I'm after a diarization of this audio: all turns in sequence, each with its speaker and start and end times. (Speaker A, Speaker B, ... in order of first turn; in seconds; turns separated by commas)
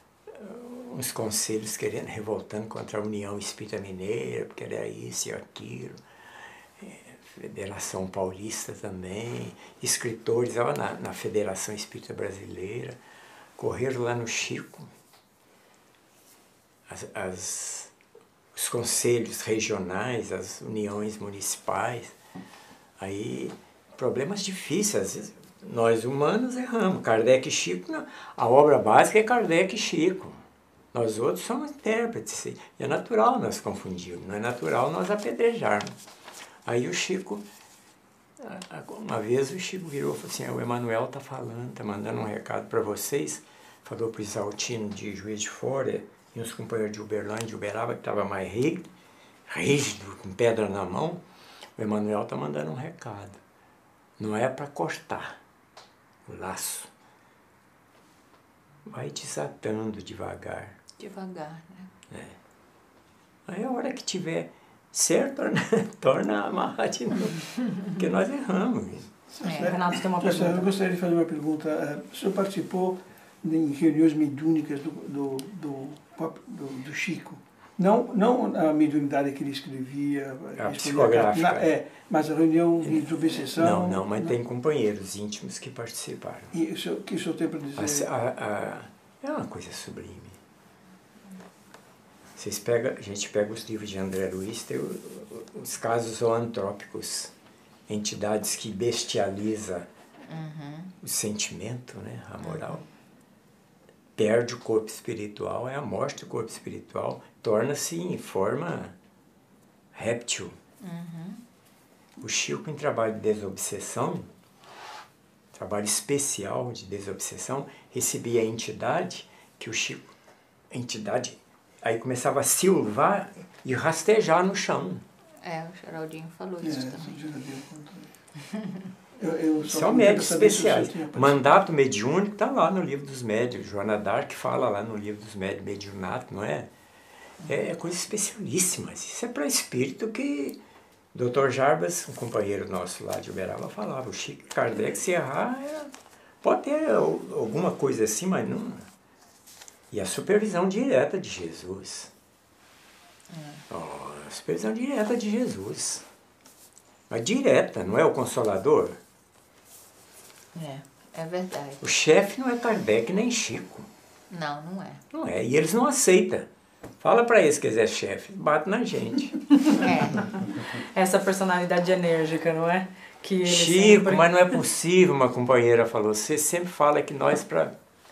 Speaker A: 0.3-6.0, Speaker A: 6.8-13.0, Speaker A: 13.6-14.9, Speaker A: 16.9-17.9, Speaker A: 18.5-22.1, Speaker A: 23.0-30.4, Speaker A: 30.9-35.9, Speaker A: 36.6-37.4, Speaker A: 38.4-48.9, Speaker A: 49.5-51.2, Speaker A: 51.8-53.4, Speaker A: 54.2-55.4, Speaker A: 56.2-56.9, Speaker A: 58.9-60.8, Speaker B: 61.0-61.9, Speaker A: 62.1-62.4, Speaker A: 63.5-69.1, Speaker C: 69.3-84.3, Speaker B: 69.4-69.7, Speaker D: 69.6-70.7, Speaker A: 80.6-81.7, Speaker A: 83.6-86.5, Speaker C: 86.5-88.1, Speaker A: 87.8-90.4, Speaker A: 92.3-97.3, Speaker A: 97.9-99.9, Speaker B: 100.3-100.9, Speaker A: 101.0-102.8, Speaker B: 102.4-102.8, Speaker A: 104.2-108.9, Speaker A: 109.9-110.5, Speaker B: 110.8-111.4, Speaker A: 112.2-114.3, Speaker A: 115.5-120.1, Speaker A: 120.7-125.0, Speaker B: 125.4-127.2, Speaker C: 126.6-128.1, Speaker C: 129.2-131.4, Speaker A: 129.6-136.7, Speaker A: 137.4-140.6, Speaker A: 141.1-148.9, Speaker A: 149.9-152.1, Speaker B: 153.3-153.6, Speaker A: 153.7-156.0, Speaker A: 157.1-159.0, Speaker B: 160.5-161.8, Speaker A: 161.8-163.9, Speaker B: 164.3-165.0, Speaker A: 165.1-166.5, Speaker A: 167.0-169.4, Speaker B: 169.8-170.3, Speaker D: 170.8-174.3, Speaker A: 173.4-177.7